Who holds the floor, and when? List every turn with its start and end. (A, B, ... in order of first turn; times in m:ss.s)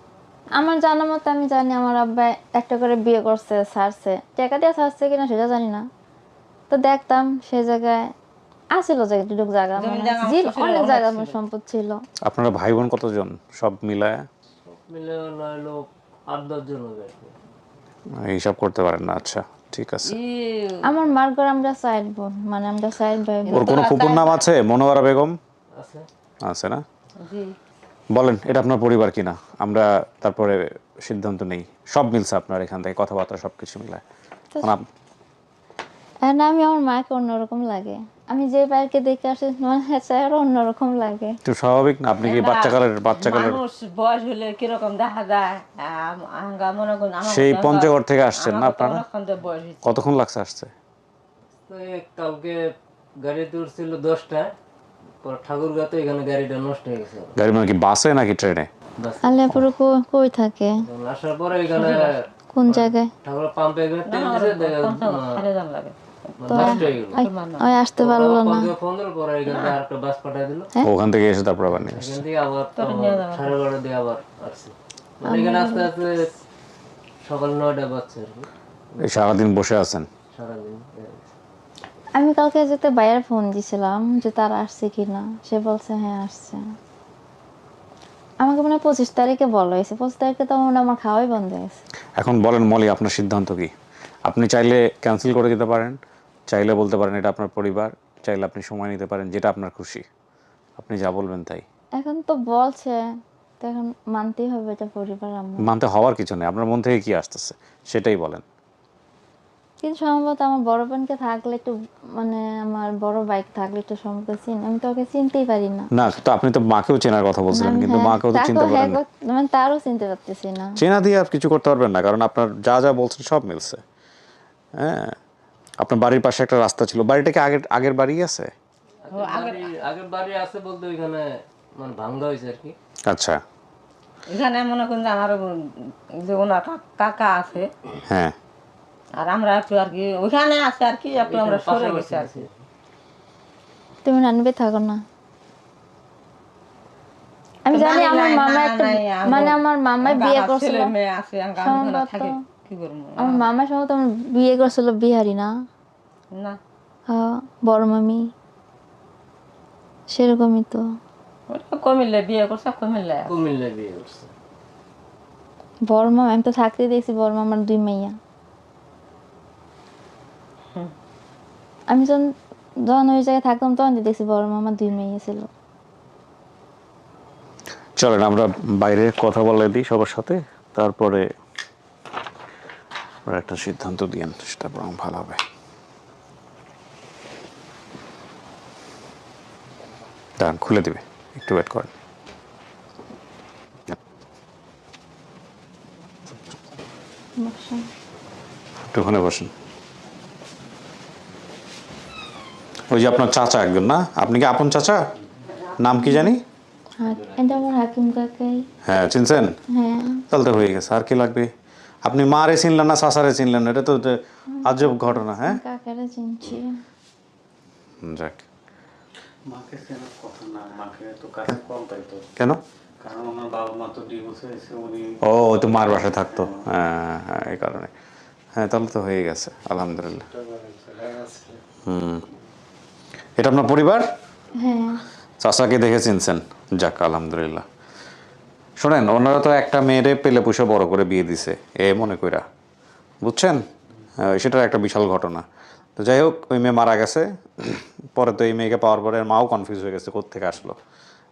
0:00.6-0:05.8 A
0:06.7-0:08.1 A
0:08.7-0:12.0 A
0:09.8-0:11.3 B
0:12.2-0:14.2 C
0:14.6-0:17.4 D
0:18.1-0:20.1 C
0:20.1-0:20.8 B
0:20.8-0:23.7 A
0:23.4-0:24.4 B
0:23.5-0:25.4 C
0:25.8-0:26.1 D
0:26.4-0:26.8 C
0:27.2-0:27.5 B
0:28.1-0:34.0 C
0:36.2-0:41.4 A
0:41.4-0:43.6 C
0:42.2-0:49.9 B
0:47.2-0:49.0 C
0:49.8-0:50.7 C
0:51.6-0:52.6 D
0:53.2-0:54.5 D
0:55.2-0:57.4 D
0:57.4-0:58.7 C
0:59.0-0:59.4 D
0:59.2-1:00.7 A
1:00.8-1:05.4 D
1:01.8-1:02.0 B
1:02.5-1:03.1 A
1:04.1-1:06.0 B
1:06.4-1:07.2 D
1:06.5-1:07.7 B
1:06.5-1:08.7 A
1:08.0-1:10.7 D
1:09.4-1:09.7 B
1:10.8-1:12.2 C
1:11.8-1:16.3 D
1:12.8-1:13.6 B
1:15.2-1:15.9 A
1:17.2-1:19.1 D
1:19.0-1:20.1 C
1:20.3-1:21.4 D
1:22.2-1:26.6 A
1:28.4-1:31.8 A
1:32.2-1:33.7 C
1:34.2-1:40.0 C
1:40.8-1:41.6 C
1:42.0-1:43.0 A
1:43.6-1:45.7 A
1:45.6-1:48.4 C
1:49.8-1:55.9 A
1:55.9-1:59.0 C
1:57.5-2:00.8 A
2:00.8-2:03.8 C
2:04.8-2:05.2 C
2:05.8-2:08.5 C
2:09.0-2:12.7 D
2:09.1-2:09.7 B
2:13.1-2:13.4 C
2:14.3-2:17.7 B
2:18.1-2:18.4 C
2:19.2-2:22.4 B
2:21.2-2:22.6 D
2:24.0-2:25.0 A
2:27.6-2:30.9 A
2:27.7-2:33.4 B
2:31.6-2:32.4 A
2:33.2-2:35.5 A
2:36.3-2:36.6 B
2:37.1-2:38.2 A
2:40.1-2:40.8 A
2:41.5-2:43.3 B
2:43.3-2:44.3 D
2:45.9-2:48.2 A
2:51.9-2:52.3 A
2:52.8-2:55.5 A
2:58.0-3:01.3 C
3:03.2-3:05.4 C
3:10.4-3:11.9 C
3:17.4-3:17.9 A
3:18.9-3:19.5 C
3:22.9-3:25.0 C
3:25.5-3:25.8 B
3:25.8-3:26.4 C
3:26.0-3:26.3 A
3:27.0-3:28.6 A
3:28.8-3:29.6 C
3:29.7-3:30.2 A
3:30.3-3:31.5 C
3:32.0-3:35.6 C
3:34.5-3:36.8 A
3:38.0-3:38.4 C
3:39.5-3:42.3 E
3:43.0-3:45.2 E
3:45.2-3:47.9 C
3:46.3-3:46.6 E
3:48.6-3:50.3 C
3:50.3-3:51.6 E
3:51.8-3:52.2 C
3:53.4-3:54.1 C
3:54.6-3:55.0 A
3:55.4-3:57.6 C
3:58.8-4:02.4 C
4:03.2-4:03.6 C
4:04.2-4:05.4 C
4:06.0-4:10.8 C